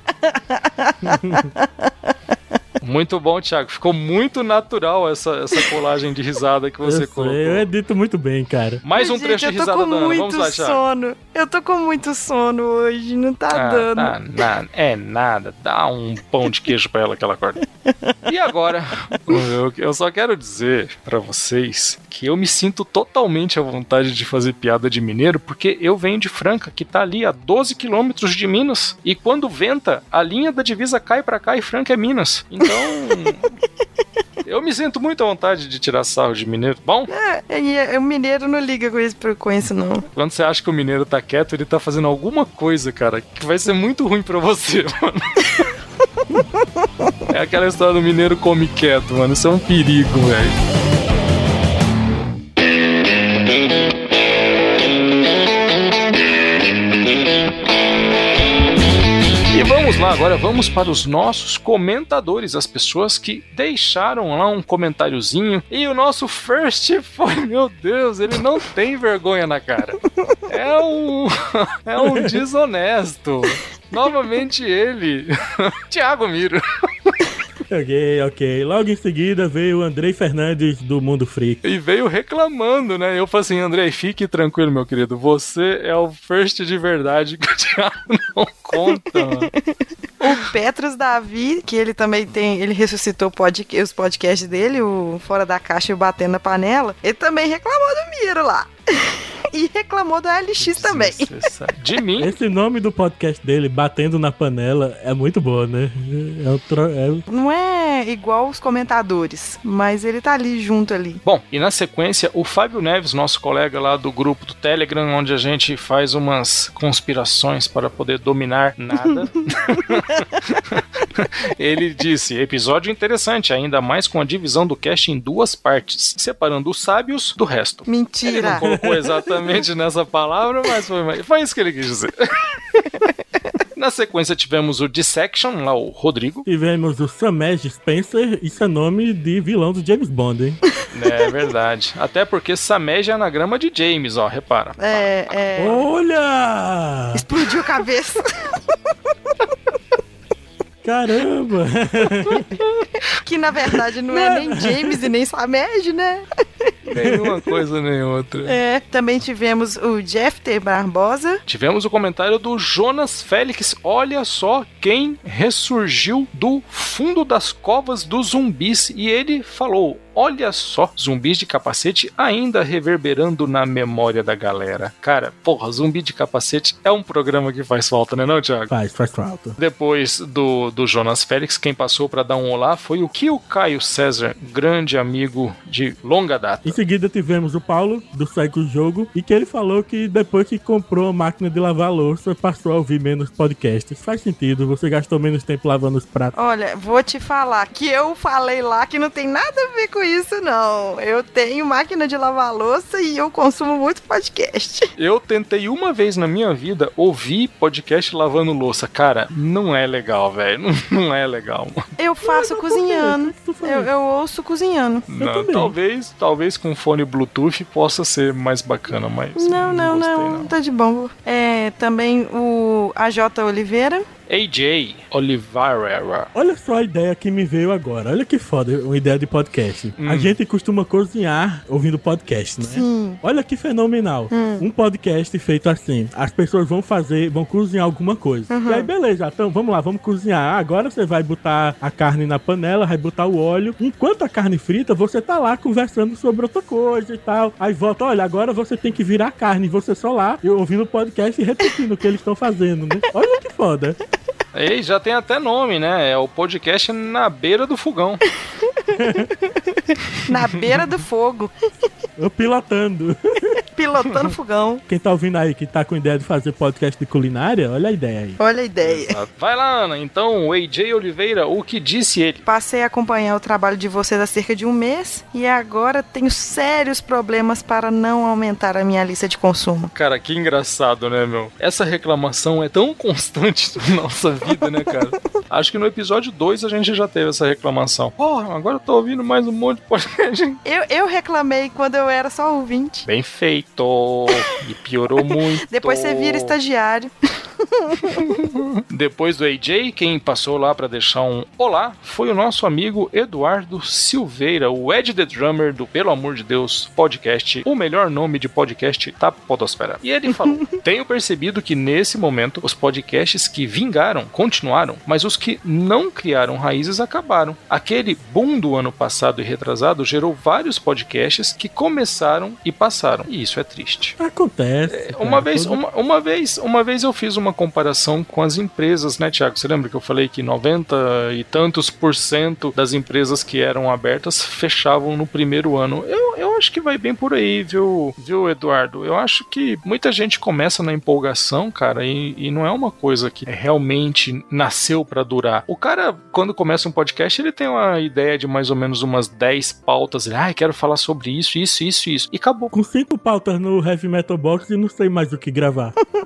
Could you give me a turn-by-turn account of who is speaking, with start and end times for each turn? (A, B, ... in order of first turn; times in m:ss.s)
0:00.3-0:01.9 A
0:01.0-0:01.5 B
0:02.8-0:07.6 C
0:06.8-0:08.8 B
0:08.8-0:10.8 C
0:09.0-0:14.2 A
0:13.5-0:17.6 C
0:18.3-0:33.5 C
0:34.4-0:37.1 C
0:37.1-0:40.0 A
0:40.1-0:45.7 C
0:47.3-0:50.6 C
0:59.5-1:17.1 C
1:12.0-1:12.4 B
1:17.7-1:21.6 B
1:21.6-1:29.5 C
1:28.8-1:41.3 A
1:30.2-1:30.5 C
1:40.6-1:42.3 C
1:42.2-1:47.2 B
1:47.3-1:51.2 A
1:51.2-2:12.3 C
1:59.6-2:00.0 A
2:07.9-2:08.6 A
2:08.5-2:09.2 B
2:13.7-2:16.4 C
2:16.4-2:20.6 B
2:20.9-2:25.0 C
2:24.8-2:25.8 A
2:25.6-2:27.2 B
2:27.1-2:28.6 A
2:30.8-2:32.5 B
2:32.3-2:32.6 A
2:33.1-2:36.2 A
2:34.1-2:35.0 B
2:36.8-2:38.6 C
2:37.0-2:37.3 B
2:38.4-2:41.4 A
2:41.5-2:58.7 C
2:58.7-2:59.6 B
2:59.6-3:06.8 C
3:06.6-3:16.3 B
3:16.3-3:24.9 A
3:25.0-3:31.8 C
3:32.0-3:35.0 A
3:32.2-3:33.9 B
3:35.1-3:40.5 C
3:35.2-3:35.7 B
3:39.4-3:44.0 A
3:44.3-3:46.3 C
3:46.3-4:14.0 B
3:50.0-3:50.4 C
3:52.6-3:53.2 A
3:54.3-3:54.6 A
3:58.5-3:58.9 A
4:14.5-4:18.2 C
4:18.7-4:21.5 A
4:19.0-4:19.3 B
4:22.2-4:23.6 B
4:23.7-4:24.8 A
4:24.9-4:28.4 B
4:28.4-4:29.2 A
4:28.8-4:32.4 C
4:32.4-4:39.9 A
4:39.9-4:50.6 C
4:50.6-4:53.0 A
4:53.0-4:56.6 C
4:55.7-4:58.2 A
4:58.1-5:24.2 C
5:24.2-5:25.8 B
5:24.9-5:52.7 C
5:52.7-5:55.9 B